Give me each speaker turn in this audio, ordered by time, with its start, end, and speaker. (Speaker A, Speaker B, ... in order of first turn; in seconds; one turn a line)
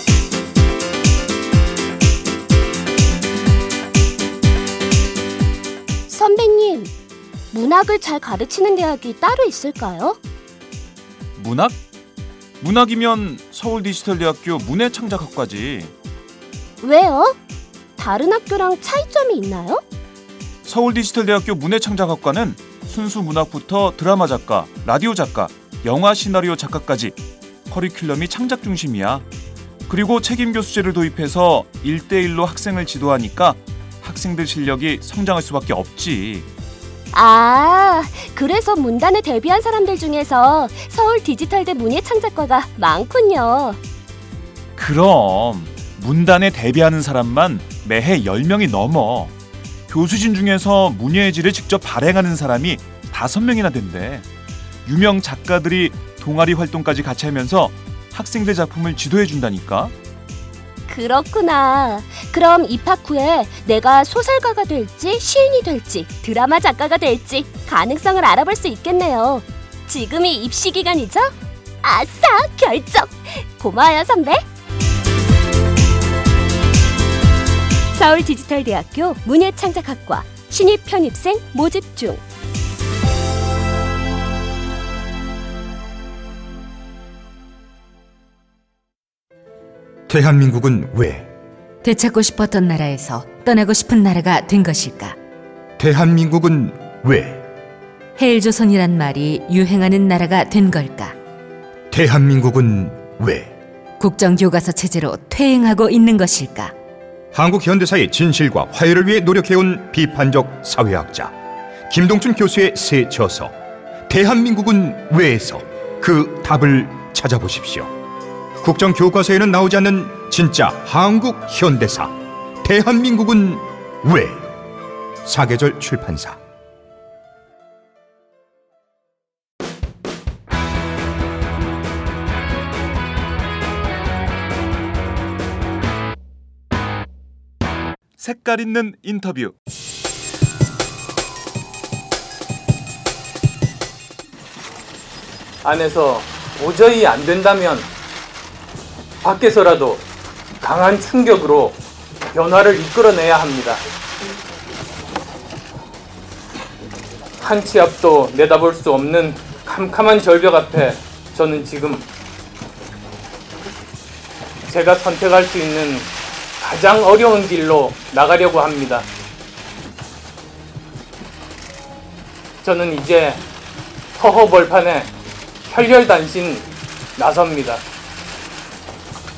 Speaker A: 6.1-6.9
Speaker A: 7.5-10.2
Speaker B: 11.4-11.8
Speaker B: 12.6-15.9
Speaker A: 16.8-17.4
Speaker A: 18.0-19.8
Speaker B: 20.6-27.2
Speaker B: 27.7-29.2
Speaker B: 29.9-36.5
Speaker A: 37.1-43.8
Speaker B: 44.8-49.3
Speaker B: 49.9-54.3
Speaker B: 54.9-59.9
Speaker A: 60.9-74.4
Speaker A: 78.0-82.2
Speaker C: 90.1-91.3
Speaker D: 91.8-95.2
Speaker C: 95.8-97.5
Speaker D: 98.2-101.2
Speaker C: 101.9-103.5
Speaker D: 104.0-106.7
Speaker C: 107.3-111.3
Speaker C: 111.9-113.5
Speaker C: 114.1-117.9
Speaker C: 118.6-124.6
Speaker C: 125.2-126.4
Speaker B: 138.2-139.5
Speaker E: 145.6-147.9
Speaker E: 149.2-150.0
Speaker E: 150.6-151.8
Speaker E: 152.3-153.8
Speaker E: 157.4-162.1
Speaker E: 164.7-166.1
Speaker E: 166.6-169.1
Speaker E: 172.6-173.4
Speaker E: 174.2-175.1
Speaker E: 175.7-176.7
Speaker E: 177.2-177.8